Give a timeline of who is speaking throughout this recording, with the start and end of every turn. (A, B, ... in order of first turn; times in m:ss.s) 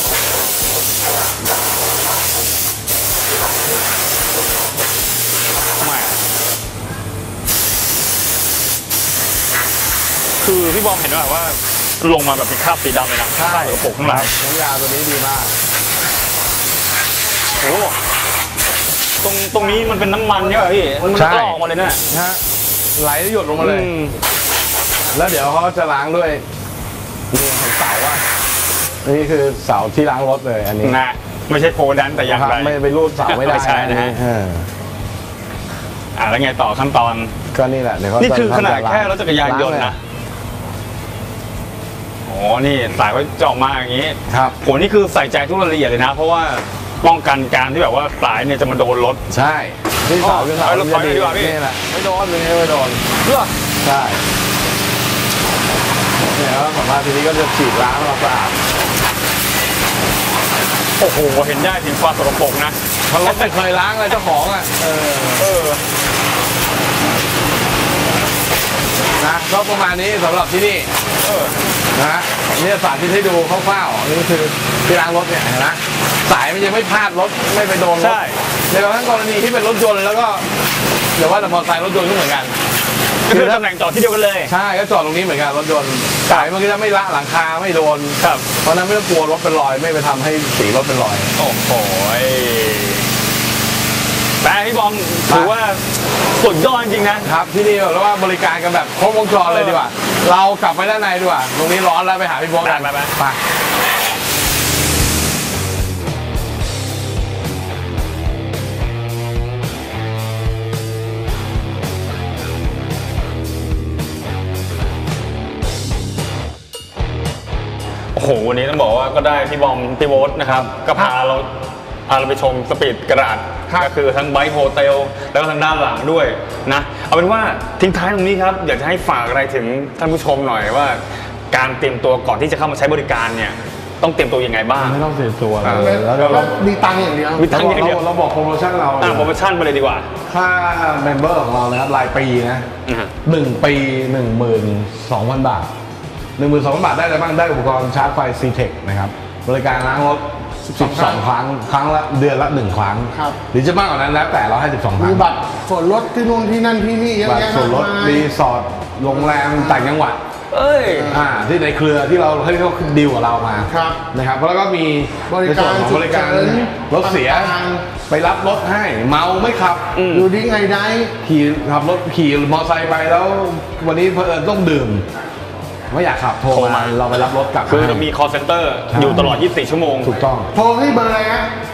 0:05.8-0:06.1 A
0:10.4-0:14.3 A
0:13.4-0:15.6 B
0:17.6-0:18.0 A
0:19.2-0:22.0 A
0:21.1-0:22.4 B
0:23.0-0:23.9 B
0:23.6-0:24.2 A
0:25.1-0:26.4 B
0:27.3-0:28.2 B
0:29.0-0:31.0 B
0:30.8-0:34.2 A
0:32.2-0:34.7 B
0:36.2-0:37.3 A
0:37.5-0:40.0 B
0:38.2-0:40.0 A
0:42.3-0:49.2 A
0:44.3-0:44.6 B
0:49.3-0:53.0 B
0:50.2-0:51.6 A
0:53.2-0:53.5 A
0:53.8-0:54.2 B
0:56.3-0:58.6 B
1:01.0-1:03.5 A
1:03.1-1:05.5 B
1:05.4-1:05.8 A
1:09.2-1:10.9 B
1:11.2-1:11.6 A
1:11.9-1:18.2 B
1:18.0-1:18.4 A
1:18.7-1:20.5 B
1:21.2-1:22.6 B
1:23.2-1:24.5 A
1:23.3-1:23.6 B
1:24.5-1:31.3 B
1:28.2-1:28.5 A
1:31.4-1:33.1 A
1:34.4-1:35.8 A
1:35.3-1:35.5 B
1:36.4-1:37.3 A
1:37.2-1:43.4 B
1:39.4-1:39.9 A
1:42.6-1:43.1 A
1:58.1-2:01.5 A
2:02.1-2:15.0 A
2:14.8-2:16.5 B
2:15.6-2:16.5 A
2:15.6-2:17.5 C
2:17.4-2:18.0 A
2:17.5-2:19.3 B
2:19.0-2:20.1 A
2:20.3-2:22.7 B
2:22.9-2:23.1 A
2:23.2-2:25.7 B
2:26.4-2:30.2 B
2:30.6-2:31.2 C
2:30.8-2:35.3 B
2:33.1-2:33.4 C
2:35.0-2:38.3 C
2:37.2-2:40.2 B
2:39.1-2:39.9 C
2:40.5-2:41.2 A
2:40.9-2:41.3 C
2:41.1-2:47.6 B
2:43.6-2:44.0 C
2:45.3-2:47.9 C
2:48.1-2:49.8 B
2:49.9-2:50.3 A
2:50.1-2:51.1 C
2:51.2-2:55.0 B
2:55.9-2:58.1 B
2:56.5-2:57.1 A
2:57.7-3:00.1 A
2:58.9-2:59.4 B
3:00.0-3:00.5 B
3:00.5-3:01.5 C